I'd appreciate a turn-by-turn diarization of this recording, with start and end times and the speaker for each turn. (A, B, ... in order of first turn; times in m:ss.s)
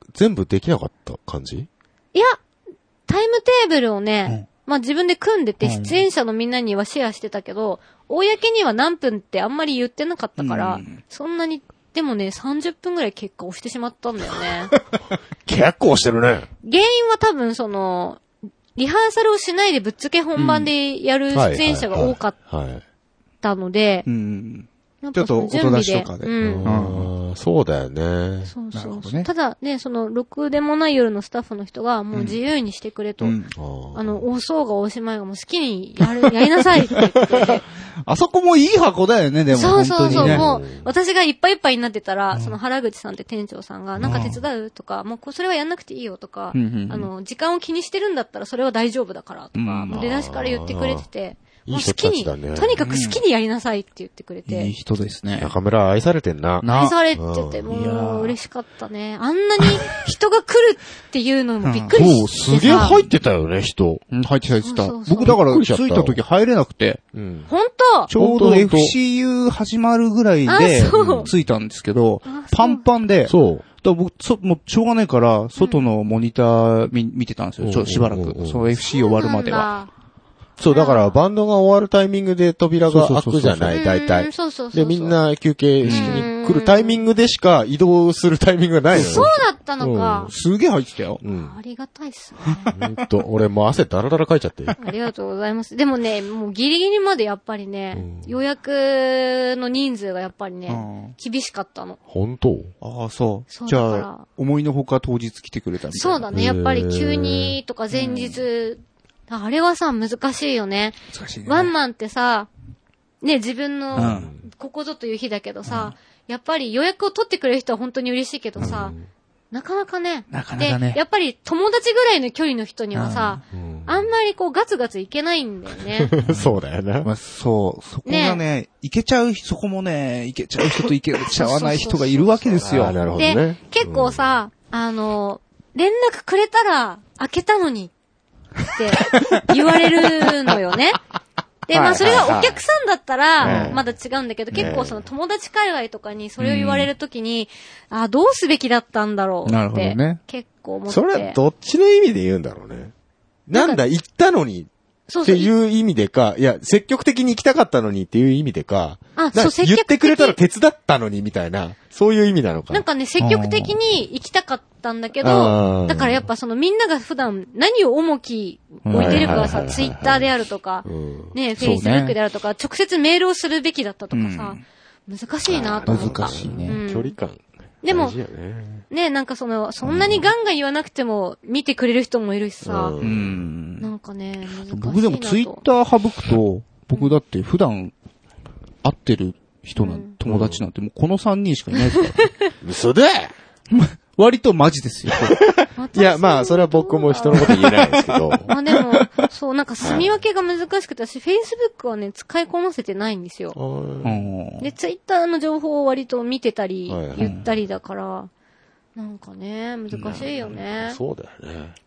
0:00.1-0:01.7 A
0:02.1-0:02.4 B
0:03.1-0:14.7 B
0:05.6-0:06.0 C
0:10.4-0:11.0 C
0:15.4-0:16.5 A
0:16.6-0:18.2 B
0:18.8-0:22.4 B
0:20.4-0:20.7 C
0:21.3-0:22.8 A
0:23.4-0:24.1 B
0:24.1-0:27.1 C
0:25.0-0:26.7 B
0:26.3-0:28.5 A
0:28.5-0:33.4 B
0:28.7-0:29.3 C
0:33.2-0:33.5 C
0:33.6-0:34.2 A
0:33.9-0:37.6 B
0:38.0-0:40.4 C
0:39.5-0:54.7 B
0:40.1-0:40.9 A
0:42.3-0:42.6 C
0:44.0-0:44.4 C
0:46.5-0:47.1 C
0:49.6-0:50.0 C
0:49.9-0:51.0 A
0:51.6-0:52.8 A
0:52.8-0:53.2 C
0:54.5-0:55.5 C
0:55.4-0:58.2 A
0:56.6-0:56.9 C
0:56.6-1:03.0 B
1:01.6-1:03.1 C
1:02.3-1:04.0 A
1:04.1-1:07.0 C
1:04.6-1:05.3 B
1:05.2-1:06.2 A
1:07.1-1:07.5 A
1:07.5-1:08.1 B
1:08.1-1:19.7 C
1:08.1-1:08.9 A
1:10.5-1:11.3 B
1:11.0-1:11.3 A
1:12.2-1:12.8 B
1:13.3-1:13.6 A
1:15.6-1:15.8 B
1:17.6-1:18.7 A
1:18.8-1:19.9 B
1:20.6-1:30.3 A
1:20.7-1:21.2 B
1:22.9-1:23.8 C
1:23.7-1:25.2 B
1:25.8-1:26.3 C
1:25.8-1:27.0 B
1:28.9-1:29.3 C
1:28.9-1:30.3 B
1:30.3-1:31.2 C
1:31.2-1:31.6 A
1:31.2-1:32.8 B
1:32.4-1:32.7 C
1:32.7-1:34.8 A
1:34.8-1:42.0 B
1:37.9-1:38.3 A
1:40.7-1:41.1 C
1:42.1-1:42.7 A
1:42.8-1:46.2 C
1:43.5-1:44.2 B
1:45.9-1:52.5 B
1:46.3-1:47.6 A
1:47.9-1:48.4 C
1:51.1-1:51.7 C
1:53.2-1:58.9 B
1:53.9-1:54.4 A
1:54.0-1:54.3 C
1:55.7-1:55.9 C
1:58.6-1:59.1 A
1:59.5-2:06.1 B
2:00.3-2:01.0 C
2:02.9-2:03.4 C
2:03.5-2:04.1 A
2:06.0-2:07.1 A
2:07.0-2:13.0 C
2:08.0-2:08.4 B
2:11.4-2:12.4 B
2:12.4-2:14.4 A
2:13.1-2:17.9 B
2:18.6-2:21.0 B
2:19.0-2:19.4 C
2:20.1-2:20.5 C
2:21.7-2:31.4 B
2:21.7-2:22.6 A
2:21.9-2:22.2 C
2:23.4-2:23.8 A
2:23.4-2:23.8 C
2:24.5-2:25.0 A
2:26.4-2:26.9 C
2:29.4-2:30.2 C
2:30.9-2:32.9 A
2:33.5-2:34.7 A
2:33.5-2:33.8 B
2:35.1-2:35.5 B
2:35.2-2:42.8 A
2:39.2-2:40.4 B
2:42.7-2:57.2 B
2:43.2-2:43.8 C
2:45.2-2:46.2 A
2:48.8-2:49.5 C
2:48.9-2:50.3 A
2:50.8-2:51.3 A
2:51.6-2:52.2 C
2:54.1-2:54.6 C
2:55.4-2:58.8 A
2:55.9-2:56.8 C
2:57.8-2:58.2 B
2:58.9-3:03.0 B
2:59.8-3:00.3 A
3:02.6-3:03.5 A
3:03.0-3:03.9 C
3:03.8-3:05.6 B
3:04.7-3:07.9 C
3:08.8-3:12.3 C
3:09.8-3:10.1 B
3:10.2-3:10.6 A
3:12.6-3:13.3 A
3:13.7-3:15.4 C
3:15.1-3:18.5 A
3:15.8-3:17.7 B
3:18.4-3:23.6 B
3:19.8-3:20.2 A
3:23.5-3:24.2 A
3:24.0-3:24.7 C
3:24.6-3:28.3 B
3:26.9-3:27.3 A
3:27.2-3:27.4 C
3:29.0-3:31.0 B
3:30.1-3:31.8 A